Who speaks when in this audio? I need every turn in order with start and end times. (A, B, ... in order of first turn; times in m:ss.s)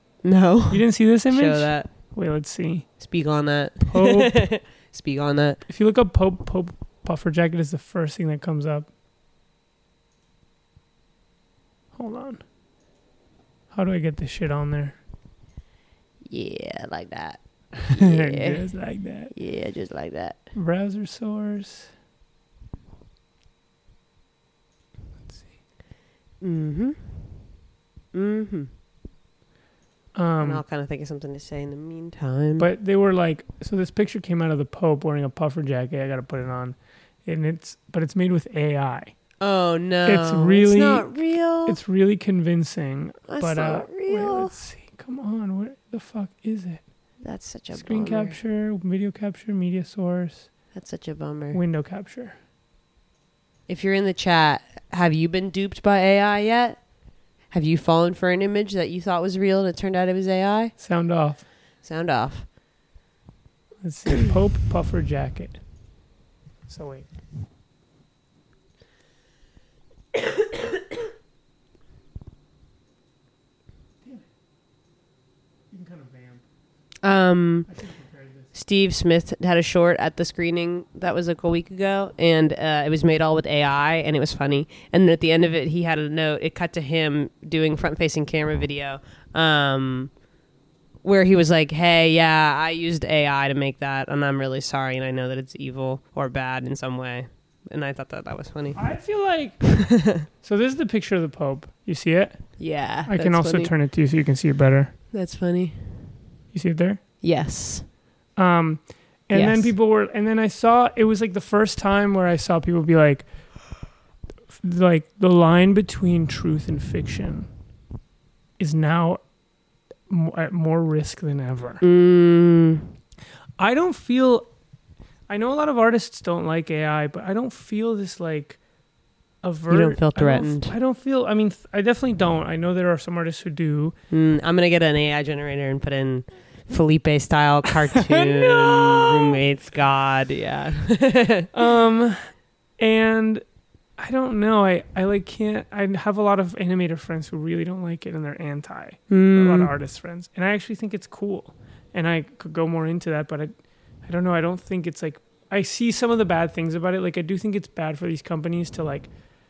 0:00.2-0:01.9 A
0:00.7-0:02.9 B
0:03.0-0:05.6 A
0:03.9-0:04.4 B
0:05.7-0:08.9 B
0:11.9-0:12.4 B
0:13.7-0:15.0 B
0:16.3-0:18.7 A
0:17.9-0:19.3 B
0:19.3-0:20.4 A
0:20.5-0:21.9 B
0:26.4-0:27.4 A
0:28.1-0:28.7 A
0:30.1-0:30.6 B
0:30.4-0:32.7 A
0:32.6-0:39.1 B
0:39.4-0:41.8 A
0:40.0-0:46.8 B
0:43.3-0:44.5 A
0:47.2-0:48.4 A
0:47.7-0:50.5 B
0:50.7-0:51.6 A
0:51.5-0:52.4 B
0:53.7-0:56.8 A
0:57.5-1:00.8 A
1:00.8-1:01.4 B
1:01.8-1:02.4 A
1:03.8-1:05.6 B
1:06.7-1:07.1 B
1:15.7-1:16.4 B
1:17.0-1:17.7 A
1:17.7-1:18.5 B
1:18.5-1:30.1 A
1:31.0-1:38.8 A
1:38.8-1:44.9 B
1:39.8-1:40.2 A
1:42.6-1:43.7 A
1:45.1-1:46.1 A
1:46.5-1:47.0 B
1:47.2-1:47.9 A
1:48.4-1:53.3 B
1:49.3-1:49.7 A
1:54.6-1:57.5 B
1:58.6-1:59.2 B
2:00.1-2:01.8 B
2:01.8-2:02.9 A
2:03.6-2:04.5 B
2:05.3-2:08.6 B
2:09.4-2:14.0 B
2:09.7-2:10.7 A
2:14.1-2:21.5 A
2:17.9-2:19.4 B
2:21.5-2:22.3 B
2:22.8-2:23.4 B
2:24.0-2:33.5 B
2:29.1-2:29.7 A
2:34.0-2:39.1 B